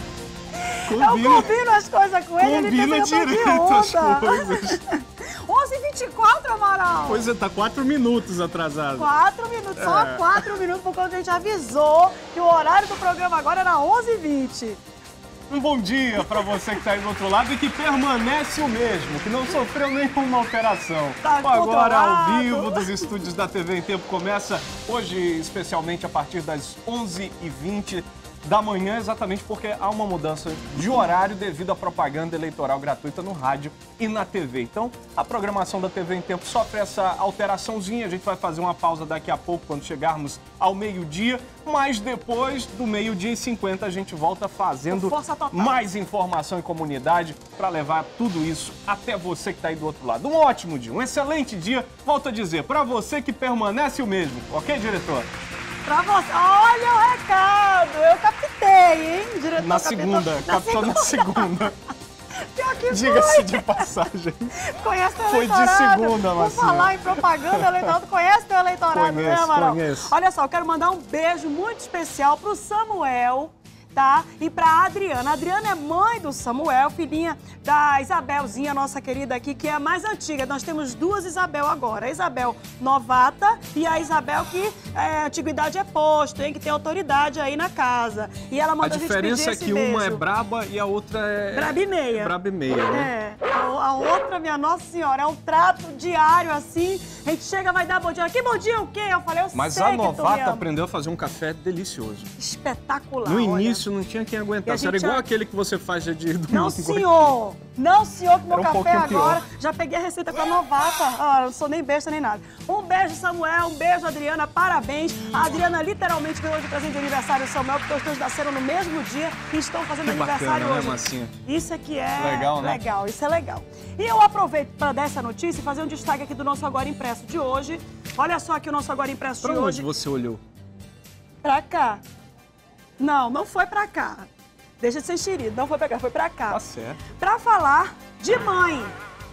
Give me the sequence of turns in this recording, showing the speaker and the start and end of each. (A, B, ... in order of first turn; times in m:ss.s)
0:00.9-0:01.5 A
0:00.9-0:04.8 B
0:02.4-0:04.8 A
0:05.5-0:07.3 B
0:07.1-0:09.1 A
0:09.0-0:14.8 B
0:09.8-0:10.4 A
0:15.5-0:55.3 A
0:21.2-0:23.0 B
0:44.9-0:45.8 B
0:55.8-1:01.6 B
0:59.6-1:01.8 A
1:02.6-1:03.9 B
1:02.9-1:04.6 A
1:04.6-1:30.2 B
1:05.3-1:07.9 A
1:08.9-1:10.1 A
1:28.8-1:33.1 A
1:31.5-1:32.3 B
1:32.9-1:40.7 B
1:39.5-1:42.3 A
1:42.4-1:43.8 B
1:43.2-1:47.3 A
1:44.6-1:45.2 B
1:46.5-2:09.9 B
1:48.5-1:49.4 A
2:00.0-2:01.4 A
2:02.2-2:02.8 A
2:09.4-2:10.4 A
2:11.4-2:12.0 B
2:13.0-2:14.3 B
2:14.8-2:16.6 B
2:16.5-2:17.0 A
2:17.2-2:18.9 B